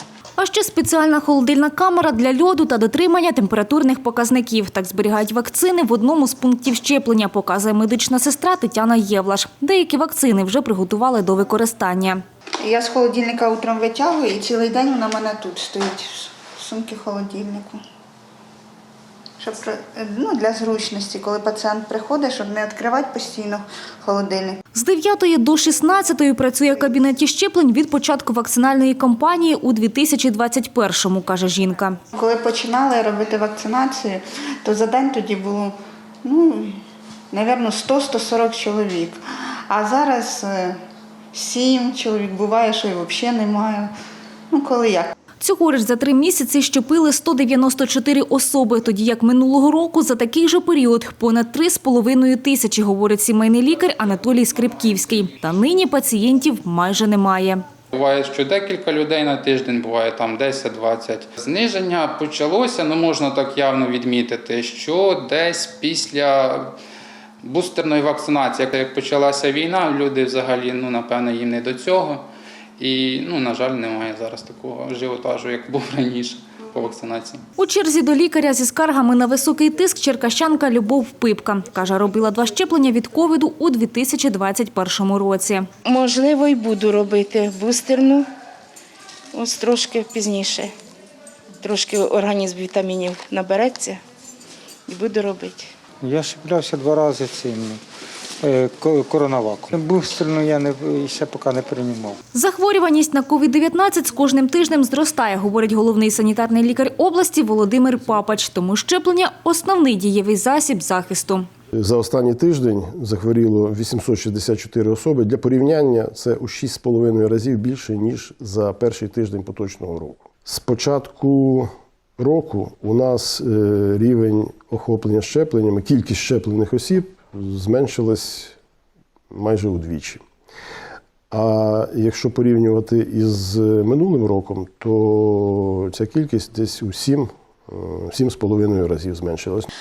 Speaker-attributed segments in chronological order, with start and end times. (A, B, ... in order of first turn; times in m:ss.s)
0:00.4-0:12.2 A
0:12.6-0:17.8 B
0:19.4-0:24.6 B
0:24.7-0:32.0 A
0:32.1-0:40.8 B
0:41.3-0:43.9 B
0:44.5-0:45.1 B
0:45.4-0:57.6 A
0:57.9-1:06.7 C
1:07.4-1:12.2 C
1:12.8-1:17.4 C
1:17.6-1:25.6 A
1:25.8-1:28.3 D
1:29.3-1:30.7 D
1:31.6-1:34.0 D
1:34.9-1:35.7 D
1:36.0-1:37.8 E
1:38.4-1:42.2 E
1:42.3-1:51.4 A
1:51.7-2:08.6 F
2:09.3-2:10.2 F
2:11.3-2:19.7 F